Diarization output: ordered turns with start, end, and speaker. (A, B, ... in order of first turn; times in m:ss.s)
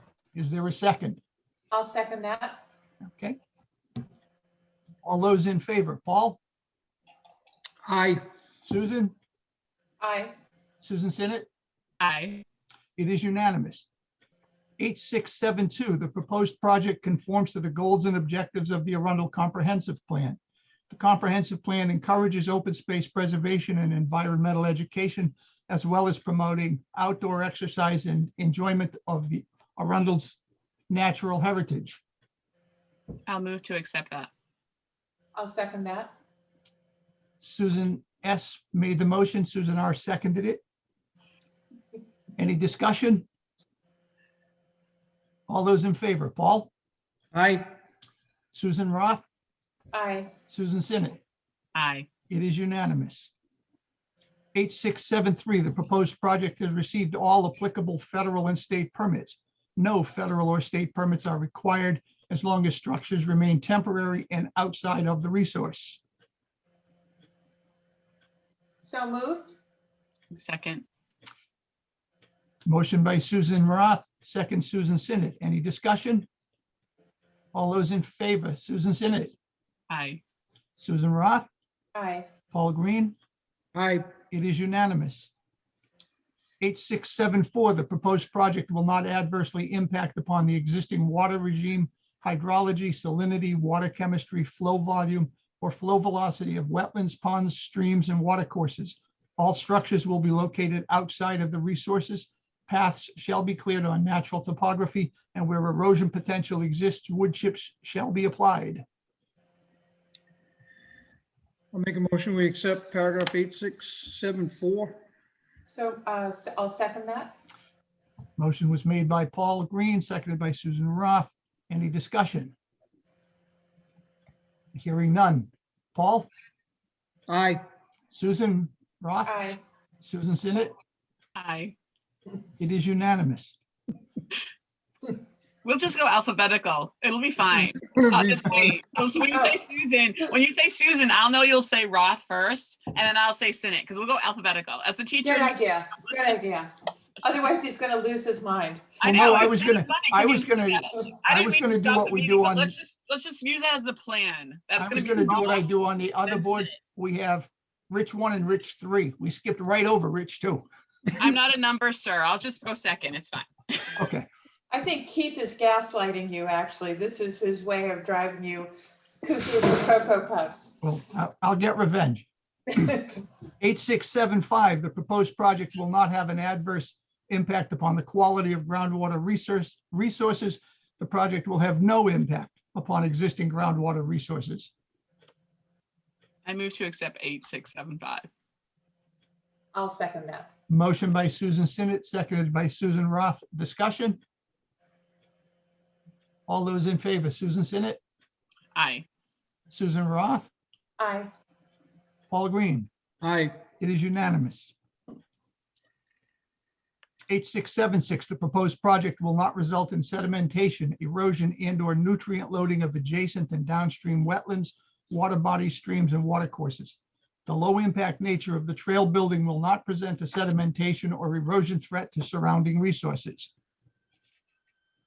0:00.3-0:01.2 A
0:01.7-0:02.6 B
0:03.0-0:03.4 A
0:05.0-0:06.4 A
0:07.8-0:08.2 C
0:08.6-0:09.1 A
0:10.0-0:10.3 B
0:10.8-0:11.5 A
0:12.0-0:12.4 D
0:13.0-0:13.8 A
0:14.8-0:20.4 A
0:20.9-0:30.4 A
0:30.9-0:32.0 A
0:33.3-0:34.3 D
0:35.4-0:36.1 B
0:37.4-0:40.6 A
0:42.4-0:43.2 A
0:45.5-0:46.7 A
0:47.3-0:47.7 C
0:48.5-0:49.3 A
0:49.9-0:50.3 B
0:50.5-0:51.2 A
0:51.7-0:52.1 D
0:52.3-0:53.3 A
0:54.5-1:06.0 A
1:08.8-1:09.5 B
1:10.3-1:10.8 D
1:12.6-1:16.3 A
1:17.5-1:19.4 A
1:19.9-1:20.2 D
1:20.8-1:21.5 A
1:21.9-1:22.3 B
1:22.5-1:23.2 A
1:23.7-1:24.1 C
1:24.3-1:25.3 A
1:26.6-1:48.8 A
1:51.7-1:55.0 C
1:55.6-1:57.3 B
1:58.4-2:02.5 A
2:04.7-2:06.3 A
2:07.3-2:07.6 C
2:08.1-2:09.5 A
2:09.2-2:09.6 B
2:10.0-2:10.7 A
2:11.4-2:11.7 D
2:12.6-2:13.5 A
2:15.6-2:26.4 D
2:17.8-2:18.7 C
2:19.3-2:19.6 B
2:25.2-2:29.1 B
2:29.0-2:35.6 D
2:29.0-2:32.7 A
2:34.8-2:40.7 A
2:36.2-2:36.7 D
2:41.2-2:43.9 D
2:44.0-2:44.3 A
2:44.7-2:50.8 B
2:50.8-2:52.3 A
2:53.6-3:04.7 A
3:06.4-3:08.3 D
3:09.7-3:10.5 B
3:10.7-3:14.2 A
3:16.5-3:18.0 A
3:18.7-3:19.0 D
3:19.7-3:20.5 A
3:21.0-3:21.3 B
3:22.3-3:22.9 A
3:23.2-3:23.6 C
3:23.8-3:24.7 A
3:27.3-3:43.5 A